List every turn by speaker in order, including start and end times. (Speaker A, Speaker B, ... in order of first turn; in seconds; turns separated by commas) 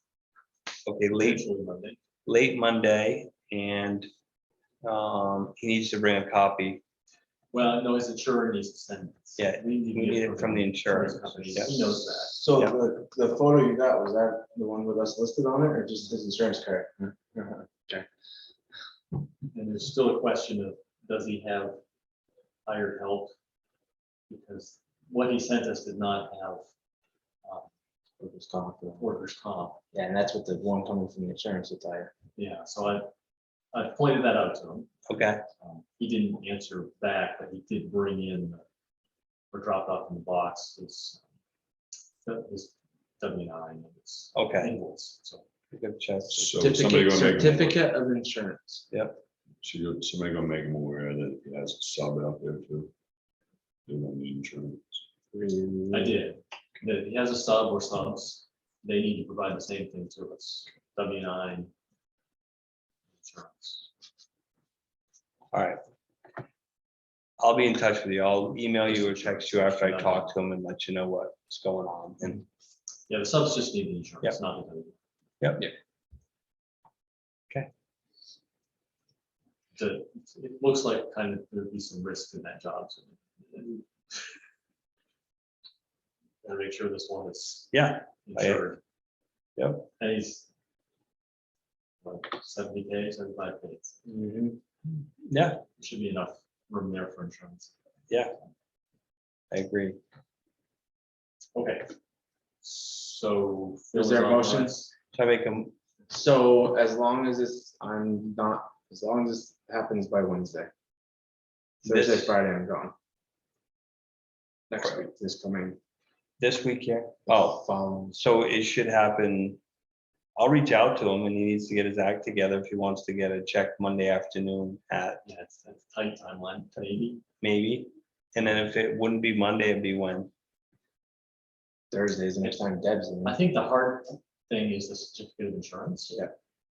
Speaker A: 0.8-1.4, Speaker B: 1.1-2.0, Speaker A: 2.2-4.1, Speaker A: 4.8-6.8, Speaker B: 7.5-12.3, Speaker A: 9.4-11.8, Speaker C: 10.9-18.1, Speaker B: 19.5-21.8, Speaker B: 22.6-23.3, Speaker B: 24.3-26.6, Speaker C: 28.2-29.0, Speaker B: 29.0-29.8, Speaker C: 29.9-32.1, Speaker B: 32.4-33.1, Speaker B: 33.7-34.9, Speaker A: 35.1-35.4, Speaker B: 35.6-38.6, Speaker B: 39.5-41.2, Speaker B: 42.2-45.4, Speaker A: 44.3-44.8, Speaker A: 45.7-46.4, Speaker C: 46.3-48.9, Speaker D: 46.3-47.8, Speaker A: 48.9-49.2, Speaker D: 49.6-52.9, Speaker D: 53.9-55.0, Speaker C: 55.3-56.2, Speaker B: 55.9-61.7, Speaker B: 63.2-63.8, Speaker A: 65.5-65.8, Speaker A: 67.4-72.4, Speaker B: 68.9-70.3, Speaker B: 73.1-75.0, Speaker A: 75.4-75.7, Speaker B: 79.7-84.2, Speaker B: 86.4-88.8, Speaker A: 87.7-88.6, Speaker A: 89.6-89.9, Speaker B: 90.0-90.5, Speaker B: 92.0-94.0, Speaker C: 94.0-94.6, Speaker A: 95.2-95.6, Speaker B: 95.8-97.7, Speaker A: 99.5-100.0, Speaker B: 101.5-101.9, Speaker B: 102.6-104.9, Speaker C: 103.9-104.8, Speaker A: 105.1-105.7, Speaker C: 106.1-110.7, Speaker A: 111.8-112.3, Speaker C: 111.8-112.9, Speaker C: 114.7-115.8, Speaker A: 116.4-119.6, Speaker C: 117.3-118.2, Speaker A: 120.4-125.2, Speaker B: 125.2-127.2, Speaker A: 127.4-130.3, Speaker C: 131.9-133.3, Speaker B: 133.2-136.2